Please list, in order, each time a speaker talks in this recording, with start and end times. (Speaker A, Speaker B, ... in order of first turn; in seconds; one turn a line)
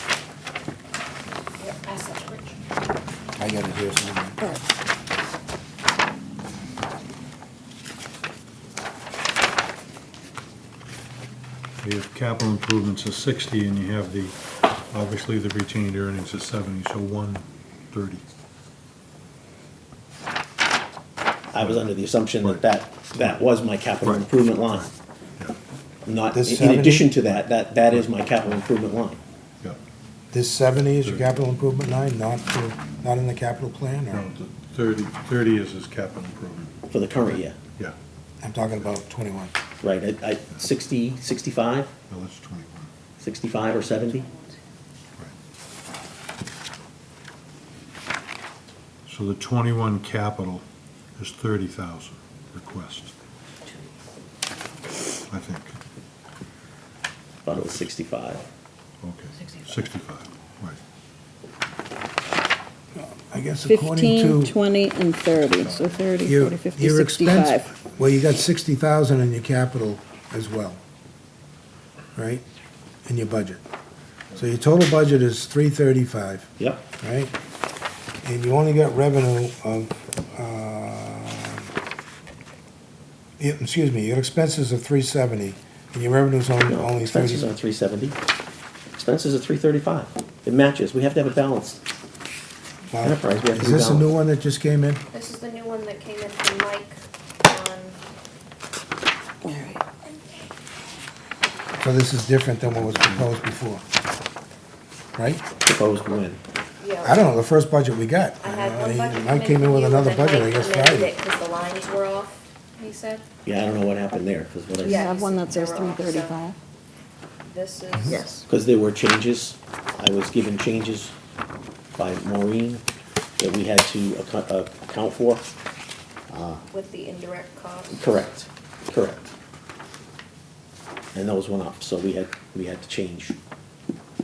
Speaker A: 1.6-2.6
Speaker B: 3.4-4.4
Speaker C: 11.8-14.3
Speaker C: 14.9-18.2
Speaker D: 21.5-24.9
Speaker C: 21.6-23.4
Speaker C: 24.0-25.5
Speaker D: 26.1-29.2
Speaker B: 26.3-27.1
Speaker B: 30.3-34.2
Speaker C: 31.0-31.2
Speaker C: 34.1-36.7
Speaker D: 36.9-37.6
Speaker B: 38.4-39.5
Speaker D: 39.8-41.9
Speaker C: 42.1-42.9
Speaker D: 43.2-44.3
Speaker A: 43.6-44.6
Speaker C: 49.1-50.6
Speaker C: 51.2-53.1
Speaker C: 55.3-55.7
Speaker D: 57.5-58.4
Speaker C: 59.0-60.8
Speaker A: 59.4-59.7
Speaker B: 63.0-64.6
Speaker E: 63.6-67.7
Speaker C: 65.6-66.0
Speaker B: 66.2-70.8
Speaker B: 72.1-72.4
Speaker B: 73.0-73.6
Speaker B: 74.3-77.3
Speaker D: 76.6-76.8
Speaker B: 78.2-81.7
Speaker B: 83.4-87.5
Speaker D: 86.7-88.2
Speaker D: 89.0-91.8
Speaker B: 92.9-95.0
Speaker D: 93.0-94.1
Speaker A: 95.1-98.0
Speaker E: 99.4-99.8
Speaker A: 100.0-100.5
Speaker B: 101.8-103.8
Speaker B: 105.2-105.4
Speaker D: 105.6-106.4
Speaker A: 106.8-107.2
Speaker B: 107.0-111.1
Speaker A: 108.4-113.2
Speaker D: 113.4-115.1
Speaker A: 114.8-116.4
Speaker E: 114.8-116.5
Speaker A: 117.4-118.4
Speaker E: 118.0-118.4
Speaker D: 118.5-121.1
Speaker D: 122.0-122.8
Speaker D: 123.4-125.5
Speaker D: 126.3-126.6
Speaker A: 126.7-128.1
Speaker D: 127.9-129.3
Speaker D: 131.1-133.3